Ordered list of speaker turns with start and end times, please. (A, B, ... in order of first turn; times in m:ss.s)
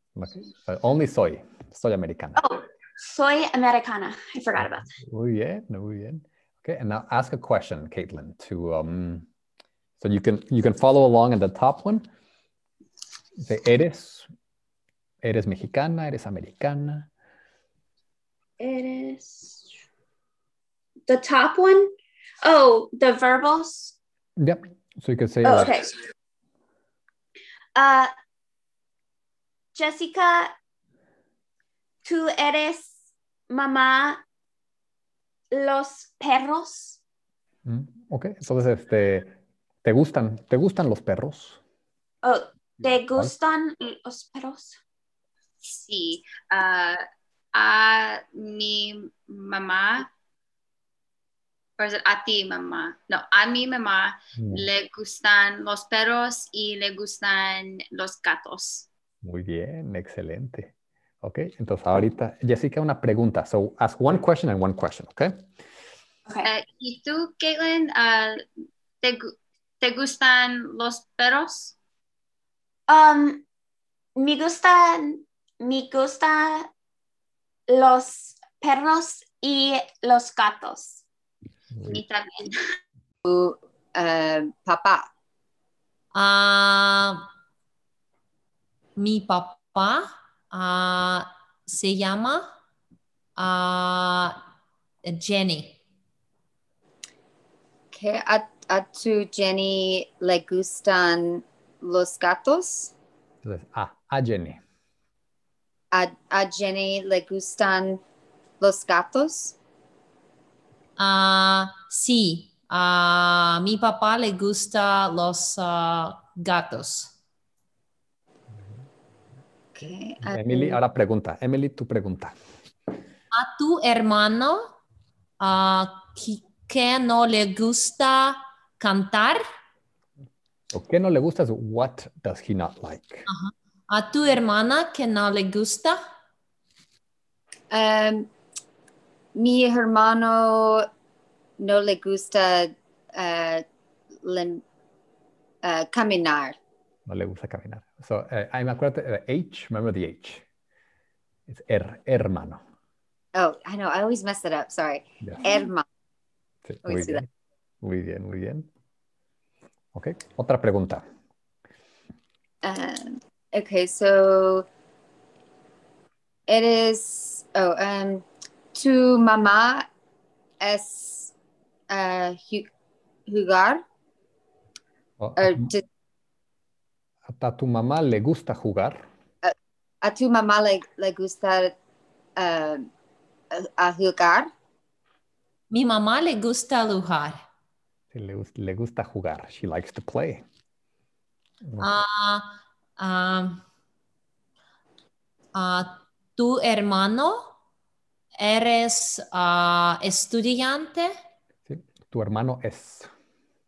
0:00.2-0:02.4 A
0:02.4-0:04.9 B
0:04.9-0:09.3 A
0:10.0-0:12.1 A
0:13.4-0:14.3 A
0:15.2-0:17.1 A
0:18.6-0:19.7 B
0:21.1-0:24.0 B
0:24.4-0:25.8 A
0:25.4-0:26.0 B
0:27.8-0:28.1 B
0:29.8-0:30.5 B
0:32.0-0:33.0 B
0:33.5-0:34.2 B
0:35.5-0:37.0 B
0:37.7-0:41.6 A
0:42.2-0:44.8 B
0:42.8-0:43.3 A
0:45.6-0:50.1 C
0:51.8-0:58.9 C
0:54.4-0:54.7 A
0:59.2-1:00.7 A
1:01.2-1:05.5 A
1:06.4-1:08.4 C
1:09.0-1:11.8 C
1:12.9-1:13.4 B
1:14.2-1:16.7 B
1:17.7-1:21.0 B
1:21.8-1:22.0 A
1:21.9-1:22.6 C
1:23.2-1:25.1 D
1:26.1-1:27.2 E
1:29.0-1:32.5 E
1:33.4-1:34.4 E
1:35.0-1:35.8 E
1:37.9-1:42.9 D
1:43.4-1:44.6 A
1:45.9-1:48.0 D
1:48.6-1:49.6 D
1:51.0-1:57.1 E
1:59.7-2:00.8 D
2:00.2-2:02.4 A
2:03.3-2:04.7 E
2:05.4-2:09.4 E
2:10.7-2:13.3 A
2:13.3-2:16.0 E
2:17.7-2:18.3 D
2:19.3-2:20.9 D
2:21.6-2:23.6 D
2:24.2-2:24.6 D
2:25.6-2:26.6 D
2:27.1-2:30.4 A
2:31.5-2:32.6 A
2:33.4-2:35.9 D
2:36.7-2:37.3 A
2:36.8-2:37.2 D
2:37.8-2:38.7 A
2:39.9-2:41.1 A
2:42.6-2:44.7 D
2:46.5-2:49.9 D
2:50.6-2:51.3 D
2:51.9-2:52.7 D
2:53.3-2:53.8 D
2:55.2-2:55.7 A
2:55.4-2:55.8 D
2:57.3-2:59.1 A
2:59.4-3:01.8 D
3:02.4-3:02.9 D
3:03.5-3:04.5 D
3:05.7-3:07.4 E
3:08.1-3:10.4 A
3:11.6-3:11.9 A
3:11.8-3:13.6 E
3:15.5-3:17.5 E
3:18.4-3:21.1 E
3:21.7-3:23.1 A